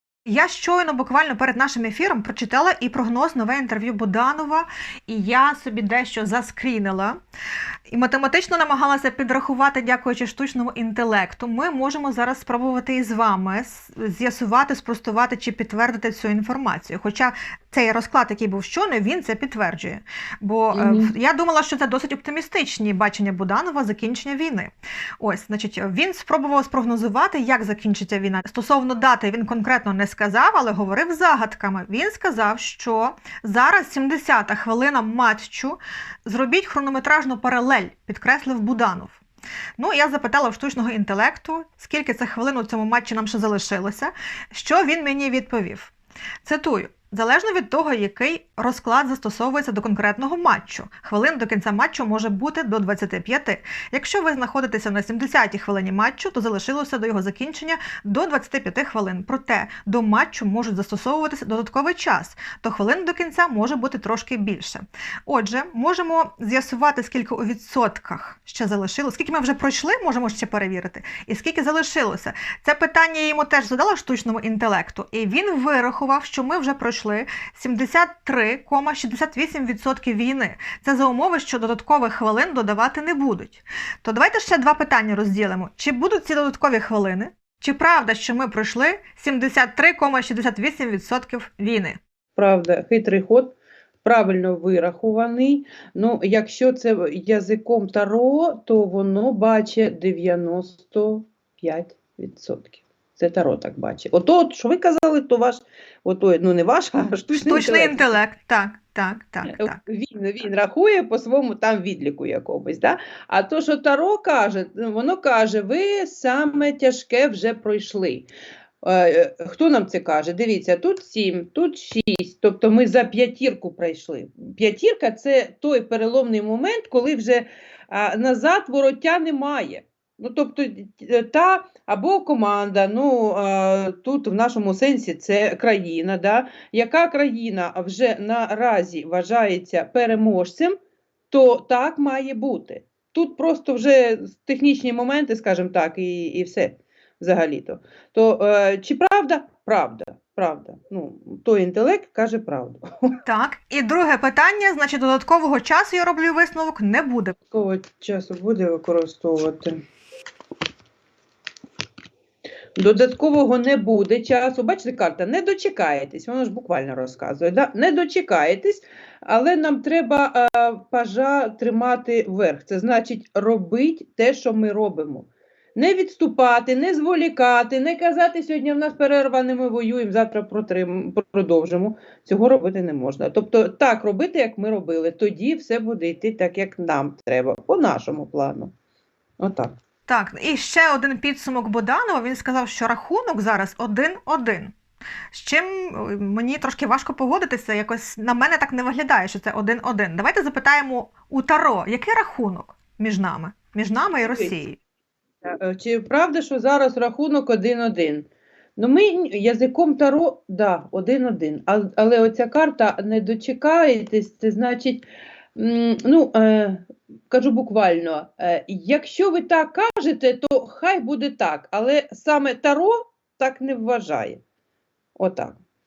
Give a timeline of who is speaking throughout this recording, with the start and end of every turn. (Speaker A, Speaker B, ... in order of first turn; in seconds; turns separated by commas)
Speaker A: 0.2-7.2, Speaker A: 7.9-39.2, Speaker B: 20.7-21.1, Speaker A: 39.8-45.9, Speaker A: 46.4-92.0, Speaker B: 92.3-108.1, Speaker A: 107.3-109.8, Speaker B: 109.5-118.3, Speaker B: 118.8-140.8, Speaker B: 141.3-153.2, Speaker A: 153.2-157.3, Speaker B: 157.5-159.8, Speaker B: 162.8-188.7, Speaker B: 189.4-189.7, Speaker A: 190.1-194.7, Speaker A: 195.3-204.8, Speaker B: 204.2-204.6, Speaker B: 205.4-215.1, Speaker B: 215.6-224.4, Speaker B: 225.2-225.6